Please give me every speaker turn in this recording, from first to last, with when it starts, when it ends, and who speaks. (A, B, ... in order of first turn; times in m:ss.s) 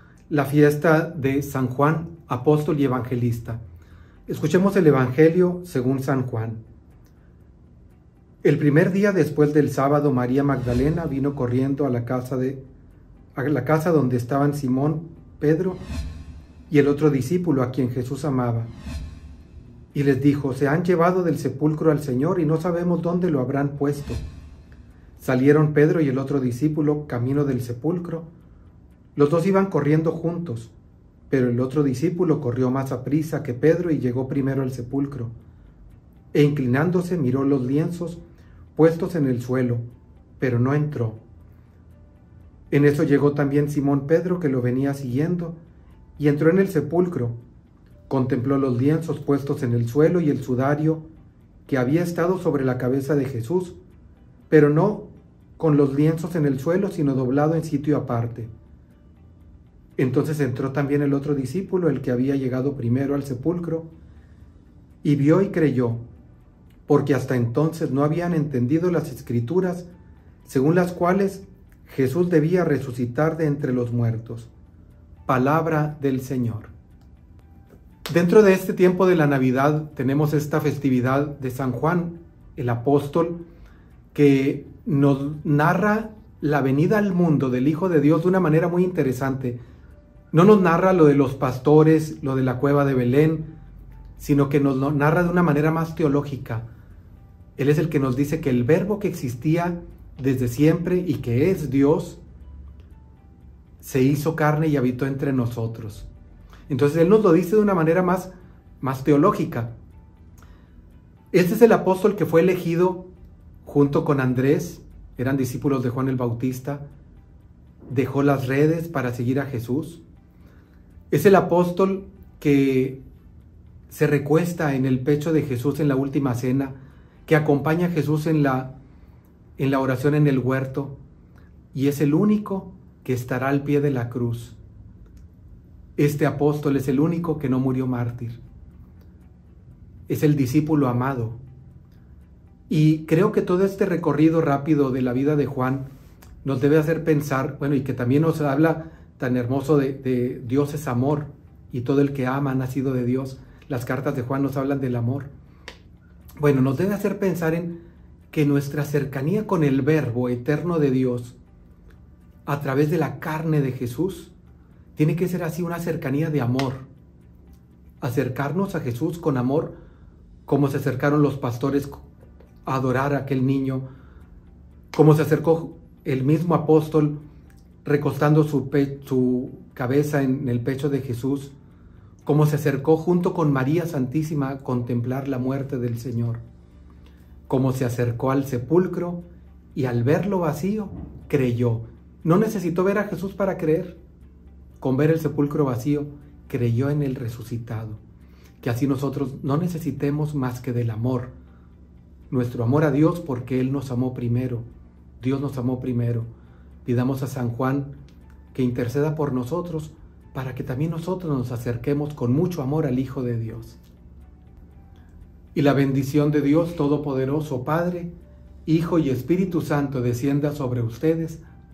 0:00.3-0:03.6 A
0:04.3-0:06.6 A
0:08.4-0:12.6 A
0:13.4-0:15.8 A
0:16.7-0:18.7 A
0:19.9-0:24.2 A
0:25.2-0:28.3 A
0:29.2-0:30.7 A
0:31.3-0:35.3 A
0:36.3-0:38.2 A
0:38.8-0:39.8 A
0:40.4-0:41.2 A
0:42.7-0:45.6 A
0:46.2-0:47.4 A
0:48.1-0:51.0 A
0:51.7-0:53.8 A
0:54.5-0:55.1 A
0:55.6-0:58.5 A
1:00.0-1:03.9 A
1:05.0-1:06.0 A
1:06.9-1:09.9 A
1:10.4-1:14.5 A
1:15.3-1:16.7 A
1:18.1-1:23.4 A
1:24.1-1:29.6 A
1:30.3-1:33.5 A
1:34.2-1:36.7 A
1:37.6-1:42.2 A
1:43.8-1:46.1 A
1:46.7-1:49.7 A
1:51.3-1:53.0 A
1:53.6-1:56.8 A
1:57.9-2:00.0 A
2:01.1-2:03.0 A
2:03.9-2:08.7 A
2:09.6-2:10.9 A
2:11.7-2:14.6 A
2:16.0-2:18.4 A
2:20.1-2:21.4 A
2:22.7-2:25.9 A
2:26.4-2:35.3 A
2:36.4-2:37.8 A
2:38.3-2:41.4 A
2:42.5-2:44.3 A
2:45.0-2:46.8 A
2:48.0-2:49.7 A
2:50.5-2:52.0 A
2:52.7-2:53.8 A
2:54.9-2:57.2 A
2:57.8-3:01.5 A
3:02.2-3:06.4 A
3:07.5-3:09.2 A
3:09.8-3:14.0 A
3:14.8-3:18.0 A
3:18.6-3:21.3 A
3:22.3-3:24.6 A
3:25.2-3:26.3 A
3:26.8-3:27.9 A
3:28.5-3:33.8 A
3:35.5-3:38.1 A
3:38.7-3:41.4 A